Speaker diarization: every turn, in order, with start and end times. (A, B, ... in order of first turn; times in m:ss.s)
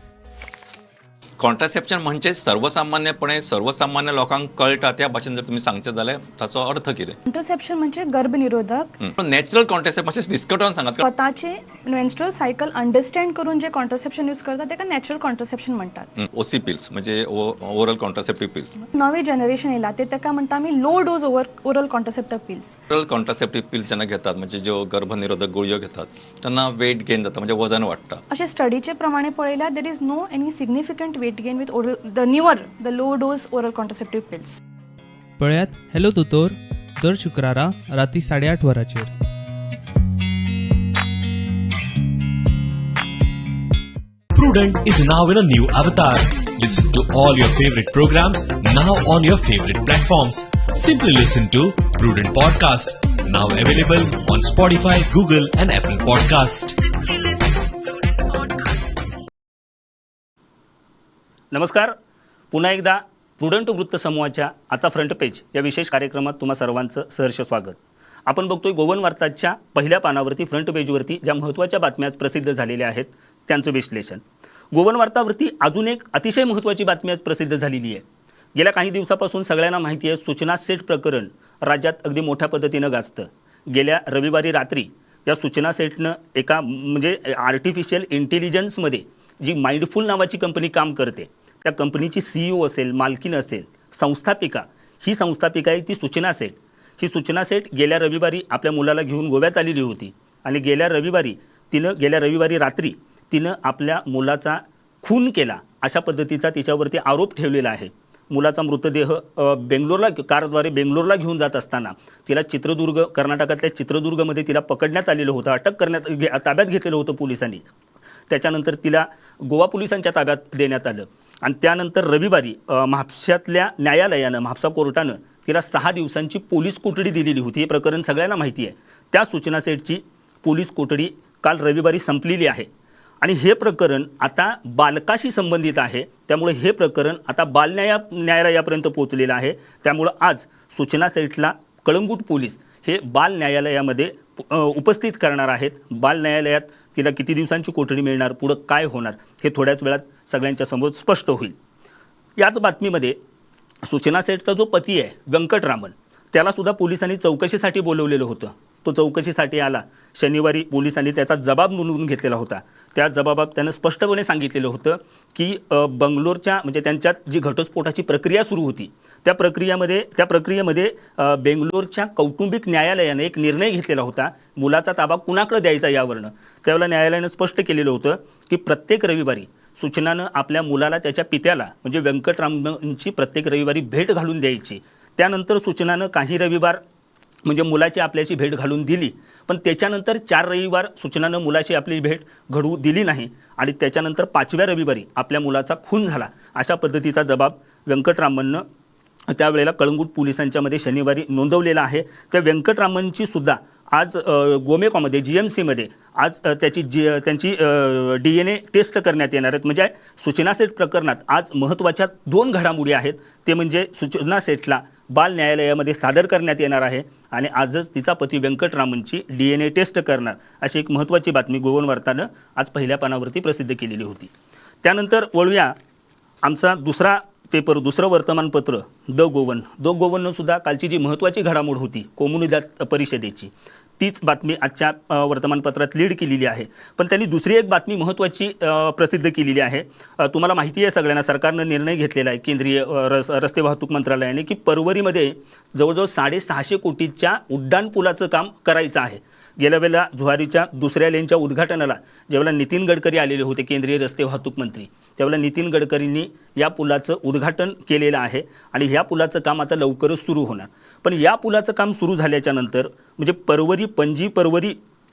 0:01.4-0:07.2 A
0:07.3-0:08.9 B
0:09.0-0:11.0 A
0:11.0-0:16.1 B
0:16.2-0:18.7 A
0:18.9-0:22.8 B
0:22.9-0:28.2 A
0:28.3-0:34.6 B
0:35.4-0:39.1 C
0:44.3-0:56.8 D
1:01.5-1:01.9 E
1:02.5-1:18.0 E
1:18.5-1:57.6 E
1:58.3-2:12.7 E
2:13.2-2:31.5 E
2:32.4-2:33.2 E
2:33.8-3:06.8 E
3:07.4-3:18.6 E
3:19.3-3:44.3 E
3:44.8-3:45.7 E
3:46.4-4:24.8 E